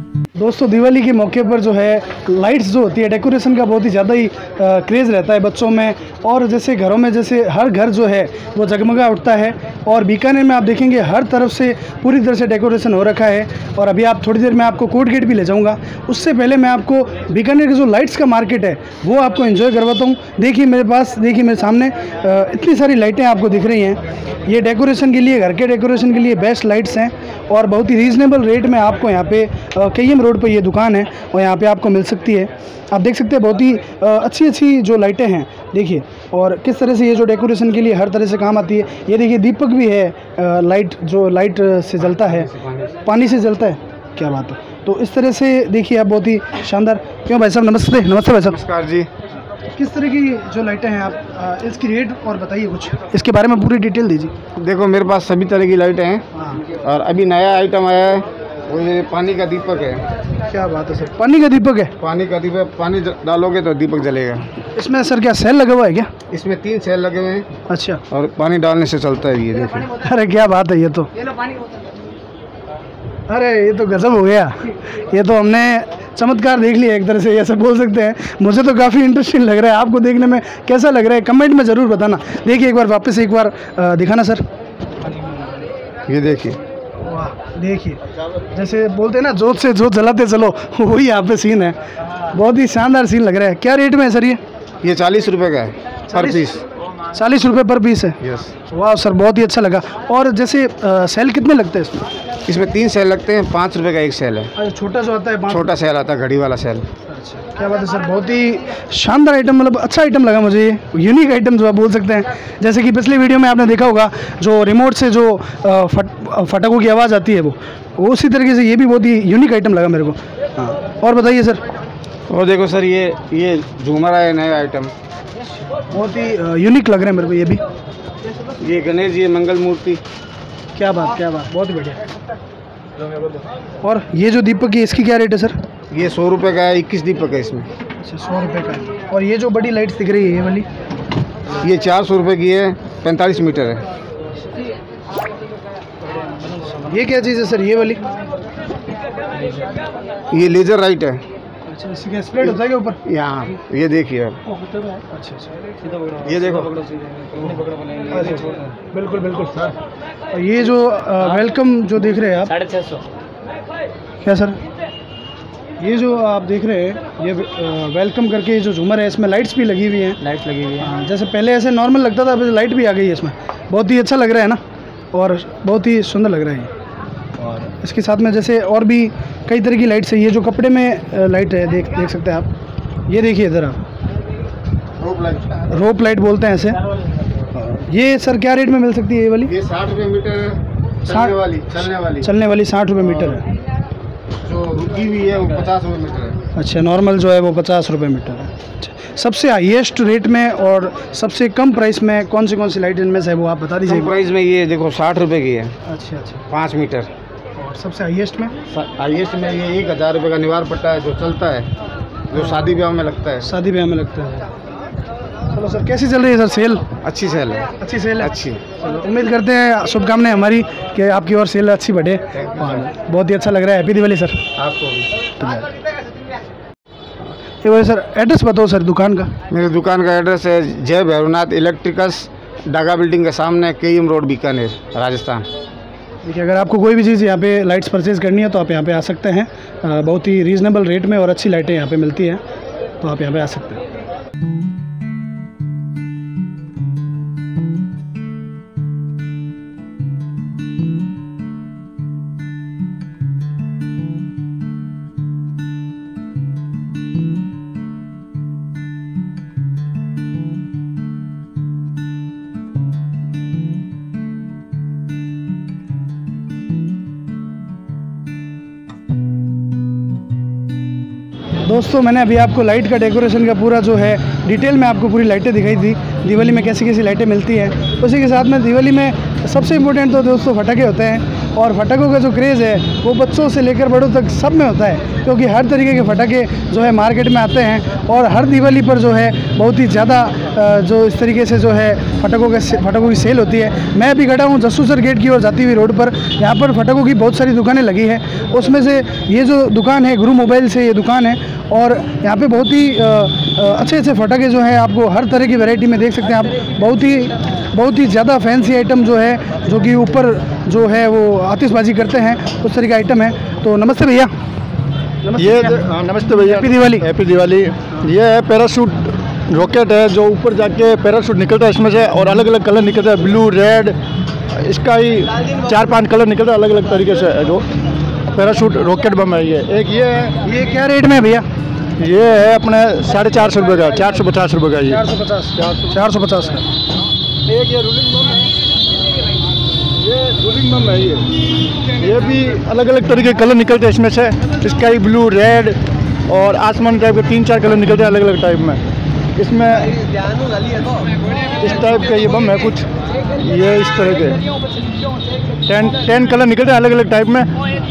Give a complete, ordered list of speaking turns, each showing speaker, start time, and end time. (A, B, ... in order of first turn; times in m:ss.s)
0:00.4-0:42.5 A
0:42.2-0:42.9 B
0:43.0-0:48.6 A
0:48.5-0:49.1 B
0:49.7-0:54.3 A
0:54.6-1:00.0 B
0:56.3-0:56.6 A
1:00.5-1:01.9 A
1:02.0-1:04.5 B
1:04.7-1:06.1 A
1:06.3-1:07.5 B
1:07.7-1:08.0 A
1:08.1-1:09.9 B
1:09.9-1:11.2 A
1:13.3-1:24.4 A
1:26.1-1:26.6 B
1:27.0-1:28.0 A
1:28.5-1:34.4 A
1:34.8-1:36.6 B
1:36.1-1:36.6 A
1:37.1-1:42.0 A
1:38.2-1:38.5 B
1:42.4-1:44.5 B
1:44.6-1:45.7 A
1:45.5-1:46.9 B
1:47.1-2:01.6 A
2:02.3-2:04.9 B
2:05.9-2:07.6 A
2:08.6-2:10.0 B
2:10.7-2:12.0 A
2:13.8-2:15.6 A
2:15.9-2:17.7 B
2:18.0-2:20.7 A
2:21.6-2:23.8 B
2:26.7-2:28.0 A
2:30.3-2:31.2 B
2:31.7-2:33.0 A
2:33.0-2:34.4 B
2:34.7-2:35.5 A
2:36.0-2:36.2 C
2:36.2-2:36.8 B
2:36.8-2:38.1 C
2:38.1-2:39.7 A
2:40.3-2:42.7 A
2:42.7-2:43.0 C
2:44.2-2:44.6 A
2:45.8-2:54.6 A
2:55.1-2:56.7 A
2:57.4-3:02.5 A
3:03.1-3:03.8 A
3:05.0-3:05.6 B
3:05.7-3:06.8 A
3:07.5-3:09.5 A
3:09.5-3:12.3 B
3:11.0-3:11.3 A
3:12.2-3:13.4 A
3:14.4-3:16.4 B
3:16.5-3:24.1 A
3:23.8-3:25.7 B
3:25.8-3:26.4 A
3:26.5-3:27.1 B
3:27.6-3:28.5 A
3:28.7-3:31.7 B
3:32.3-3:33.5 B
3:33.4-3:34.5 A
3:35.5-3:36.9 A
3:37.0-3:38.6 B
3:37.8-3:44.4 A
3:42.4-3:42.9 B
3:44.6-3:45.1 B
3:45.4-3:45.7 A
3:47.6-3:49.3 A
3:49.5-3:55.5 B
3:56.2-4:02.4 A
4:03.0-4:03.8 A
4:31.6-5:14.3 A
5:15.2-5:17.0 A
5:15.3-5:24.0 D
5:24.5-5:27.7 D
5:28.3-5:30.4 D
5:30.4-5:31.4 A
5:32.0-5:35.0 D
5:34.9-5:36.6 A
5:35.6-5:36.0 D
5:37.4-5:38.5 D
5:40.0-5:41.3 D
5:42.0-5:48.8 D
5:49.4-5:50.2 D
5:51.6-5:54.4 D
5:55.6-5:57.5 D